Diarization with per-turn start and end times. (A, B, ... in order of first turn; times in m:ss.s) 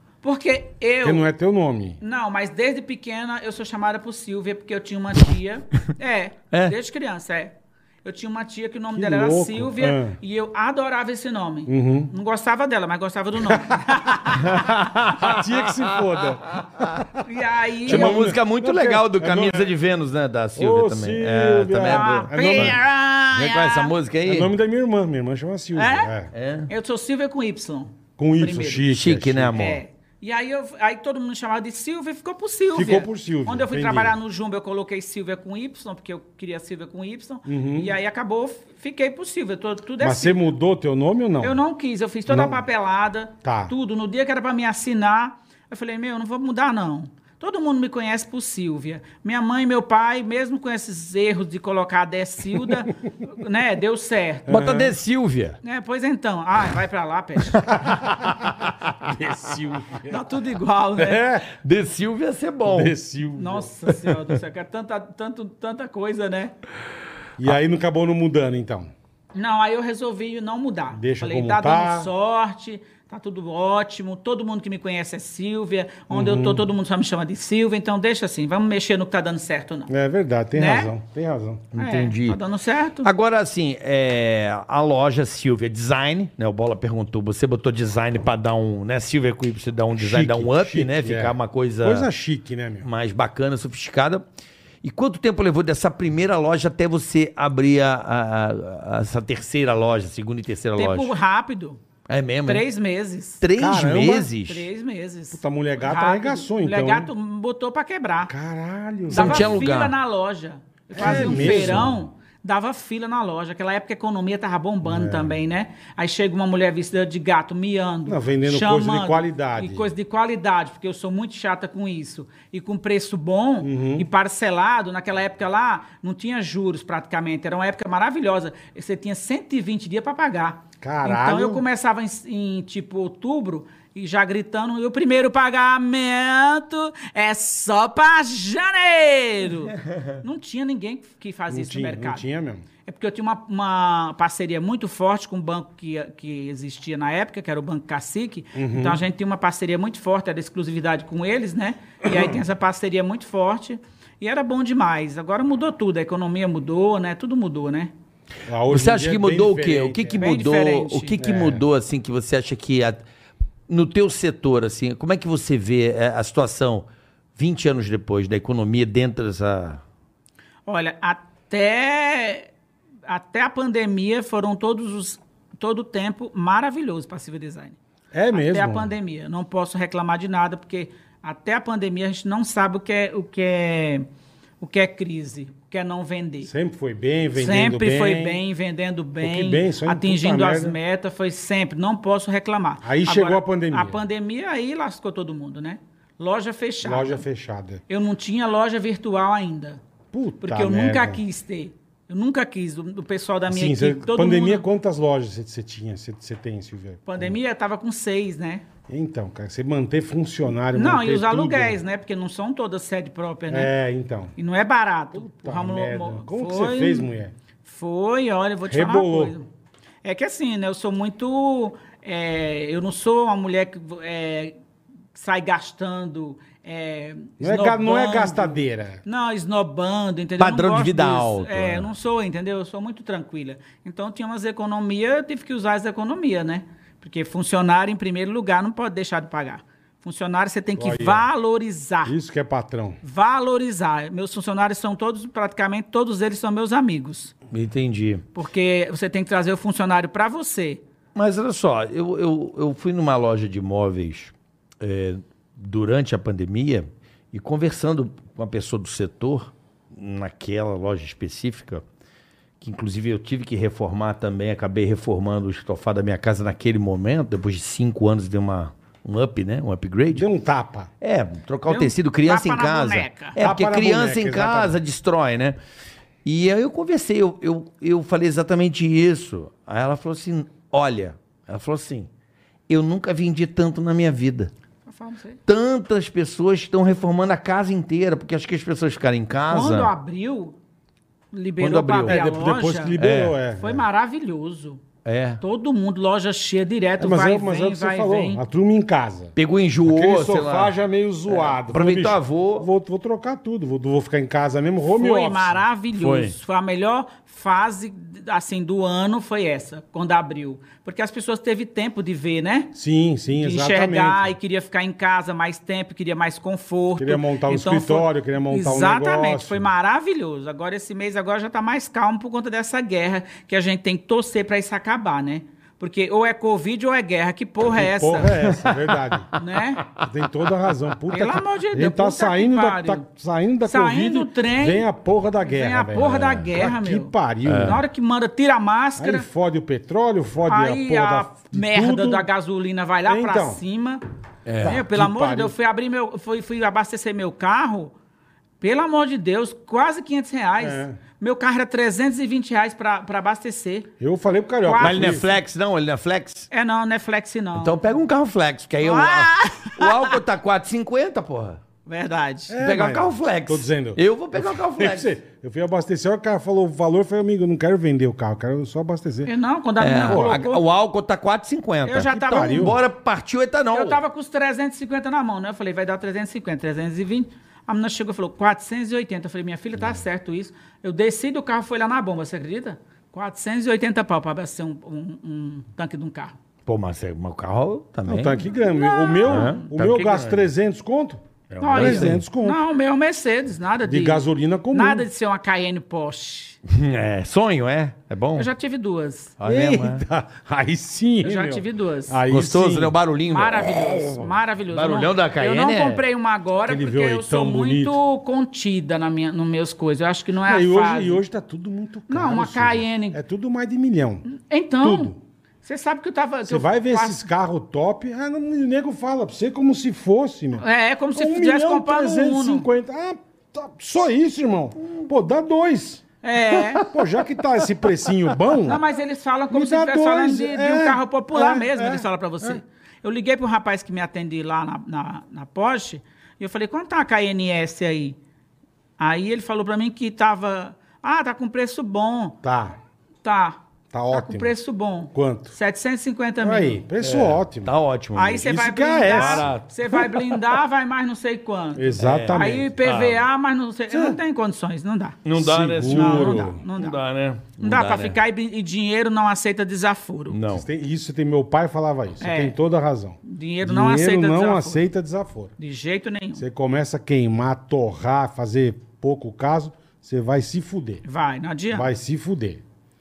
0:00.2-0:01.2 A
0:01.0-0:02.0 B
0:02.0-0:14.7 A
0:08.9-0:10.2 B
0:11.7-0:12.1 B
0:13.5-0:14.0 B
0:14.4-0:16.9 C
0:15.1-0:17.2 B
0:17.2-0:18.2 A
0:17.8-0:19.7 B
0:17.9-0:24.5 C
0:20.6-0:22.8 B
0:21.8-0:23.9 A
0:24.2-0:26.3 B
0:25.8-0:26.1 A
0:26.3-0:26.7 C
0:26.7-0:28.9 A
0:28.2-0:29.6 B
0:28.9-0:29.8 C
0:29.6-0:40.5 A
0:32.7-0:34.2 B
0:37.5-0:37.9 B
0:40.0-0:41.6 B
0:41.4-0:54.6 A
0:42.3-0:42.6 B
0:43.4-0:43.7 B
0:54.5-0:54.9 B
0:54.5-0:55.6 C
0:55.6-0:57.6 A
0:57.6-0:58.7 C
0:57.8-0:58.1 B
0:59.0-1:00.2 B
1:00.1-1:01.2 A
1:01.0-1:01.5 B
1:01.5-1:03.0 C
1:02.7-1:04.3 B
1:03.4-1:06.5 A
1:07.4-1:08.9 B
1:09.4-1:19.9 A
1:10.9-1:12.1 B
1:16.1-1:16.6 B
1:19.9-1:21.7 B
1:20.6-1:20.9 A
1:21.7-1:22.4 C
1:21.8-1:23.1 A
1:23.0-1:32.1 C
1:30.0-1:32.9 B
1:32.8-1:34.2 C
1:34.8-1:41.1 C
1:40.8-1:41.8 A
1:42.1-1:42.6 C
1:42.4-1:43.4 A
1:43.4-1:44.6 C
1:43.5-1:44.3 B
1:44.4-1:48.3 A
1:45.3-1:47.1 B
1:48.3-1:49.5 B
1:49.1-2:22.3 A
1:49.1-1:50.0 C
1:50.9-1:52.0 B
1:51.0-1:51.9 C
1:54.8-1:55.4 B
1:58.1-1:59.9 B
2:03.6-2:04.1 B
2:10.8-2:11.6 B
2:21.5-2:22.6 B
2:22.8-2:37.9 A
2:28.6-2:29.0 B
2:38.5-2:40.2 B
2:38.7-2:43.0 C
2:40.2-2:41.2 A
2:41.2-2:41.6 B
2:43.7-2:49.8 C
2:50.7-2:52.5 A
2:53.1-2:57.8 A
2:58.1-2:58.9 B
2:58.3-3:04.1 A
3:04.6-3:06.5 A
3:06.4-3:08.4 B
3:07.4-3:17.2 A
3:09.2-3:10.8 B
3:12.8-3:14.0 B
3:16.8-3:17.8 B
3:17.9-3:19.8 A
3:20.1-3:21.2 B
3:20.4-3:24.6 A
3:23.5-3:27.4 B
3:27.1-3:28.6 A
3:28.9-3:31.8 B
3:30.7-3:33.7 A
3:33.5-3:34.4 B
3:34.4-3:37.1 A
3:35.1-3:37.3 B
3:37.6-3:39.5 A
3:38.7-3:39.4 B
3:40.0-3:44.6 A
3:45.2-4:02.2 A
3:47.4-3:49.0 B
3:50.4-3:51.9 C
4:00.8-4:01.3 B
4:02.0-4:03.0 B
4:03.0-4:07.3 A
4:07.5-4:08.2 C
4:08.4-4:10.8 A
4:11.2-4:21.8 C
4:22.6-4:30.3 C
4:30.1-4:30.9 B
4:31.0-4:35.6 C
4:31.7-4:33.4 A
4:33.4-4:34.8 B
4:36.2-4:42.1 C
4:42.7-4:44.5 C
4:44.8-4:45.4 A
4:45.5-4:49.9 C
4:49.5-4:50.6 A
4:51.3-4:53.0 A
4:51.6-4:52.2 C
4:52.0-4:53.8 B
4:53.0-4:53.4 C
4:53.6-4:54.8 A
4:55.0-4:55.4 C
4:55.4-4:58.4 A
4:57.0-5:05.6 B
4:59.4-5:00.8 C
5:01.3-5:02.7 C
5:04.9-5:12.7 A
5:06.0-5:06.4 C
5:12.7-5:14.3 B
5:13.4-5:28.4 A
5:17.0-5:19.7 B
5:27.7-5:29.3 B
5:29.3-5:29.9 A
5:30.0-5:37.8 B
5:31.1-5:33.1 A
5:33.6-5:34.9 A
5:35.4-5:39.3 A
5:37.4-5:37.8 C
5:39.0-5:42.3 B
5:40.5-5:44.0 A
5:43.1-5:43.6 B
5:44.5-5:44.8 C
5:44.6-5:45.6 B
5:44.6-5:47.9 A
5:48.6-5:53.9 A
5:50.6-5:51.0 B
5:54.0-5:55.3 B
5:54.6-5:55.2 A
5:54.8-5:56.5 C
5:56.5-5:57.8 A
5:57.6-6:01.6 C
5:58.8-6:00.2 A
6:01.9-6:02.6 A
6:02.5-6:09.3 B
6:02.6-6:05.1 C
6:09.2-6:10.6 A
6:09.8-6:14.0 C
6:10.0-6:10.4 B
6:11.8-6:12.8 A
6:12.0-6:12.8 B
6:13.7-6:26.4 A
6:26.7-6:28.4 C
6:28.1-6:32.6 B
6:28.6-6:29.6 A
6:29.2-6:30.5 C
6:31.5-6:32.2 C
6:31.6-6:36.6 A
6:33.8-6:35.1 B
6:36.7-6:38.5 C
6:38.4-6:39.3 A
6:39.4-6:40.0 C
6:39.4-6:43.0 B
6:41.2-6:42.2 A
6:42.3-6:46.0 C
6:43.3-6:51.2 A
6:46.6-6:48.0 B
6:50.5-6:54.2 B
6:52.1-6:53.2 A
6:54.2-6:57.2 A
6:54.8-6:55.2 B
6:56.5-7:08.8 B
7:00.6-7:02.7 A
7:06.2-7:07.0 A
7:08.6-7:18.2 A
7:09.5-7:12.6 B
7:19.0-7:22.4 A
7:22.4-7:22.8 B
7:23.2-7:23.6 A
7:23.9-7:24.5 B
7:24.1-7:26.8 A
7:25.1-7:25.6 B
7:26.4-7:27.7 B
7:27.0-7:28.4 C
7:28.2-7:35.2 A
7:28.4-7:29.5 B
7:29.1-7:30.4 C
7:31.8-7:32.8 B
7:32.0-7:33.2 C
7:33.9-7:34.2 B
7:35.2-7:38.2 C
7:35.4-7:36.6 B
7:35.8-7:37.0 A
7:37.6-7:40.4 A
7:40.3-7:40.7 C
7:40.5-7:45.5 B
7:42.2-7:42.6 A
7:43.2-7:44.8 A
7:45.6-7:46.4 A
7:46.4-7:51.0 B
7:51.0-7:51.9 A
7:51.7-7:52.6 B